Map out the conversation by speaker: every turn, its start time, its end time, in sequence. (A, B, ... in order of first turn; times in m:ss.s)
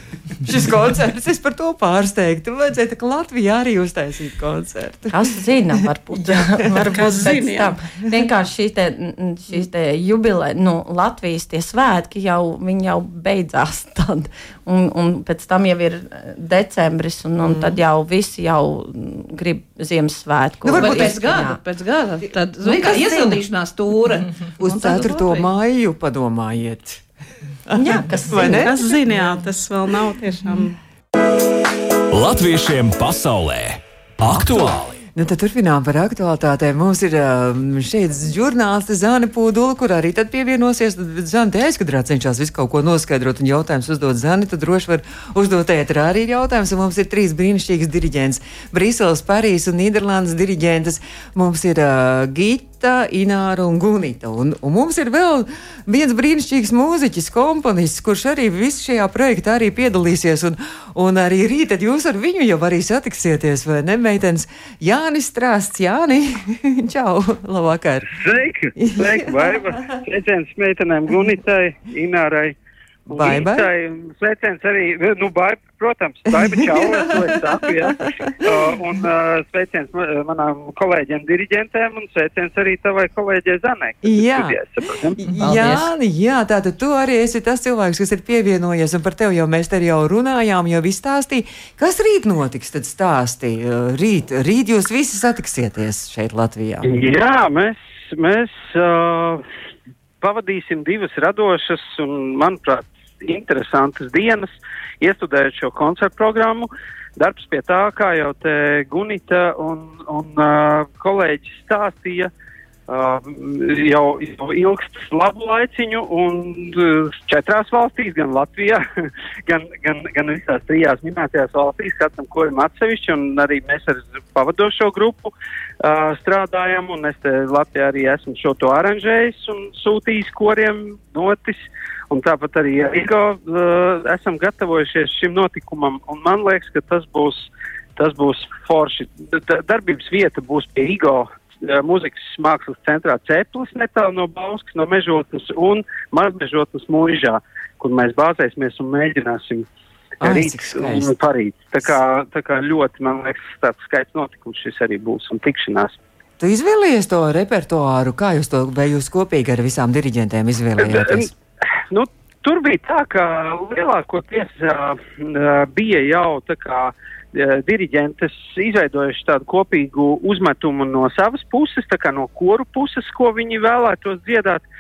0:00.4-0:05.2 A
0:05.1-0:21.6 B
0:06.3-0:06.9 A
0:06.9-0:07.8 C
0:17.4-0:17.8 A
0:20.6-0:21.5 A
0:20.8-0:25.5 D
0:22.7-0:23.3 B
0:22.8-0:23.4 A
0:24.6-0:27.0 A
0:27.7-0:28.8 A
0:27.8-0:28.7 B
0:28.3-0:30.8 C
0:32.1-0:35.0 E
0:34.4-1:08.2 A
1:08.1-1:25.2 F
1:08.8-1:10.0 A
1:13.1-1:13.7 A
1:16.3-1:18.7 A
1:24.0-1:24.6 A
1:25.2-1:36.9 A
1:25.4-1:25.9 D
1:36.8-1:39.4 F
1:40.2-1:44.5 F
1:45.0-1:52.3 F
1:52.9-1:58.8 F
1:59.5-2:05.3 F
2:05.8-2:29.7 F
2:30.2-2:36.0 F
2:30.2-2:31.1 A
2:36.4-2:41.3 A
2:40.8-2:41.3 F
2:41.9-2:54.6 F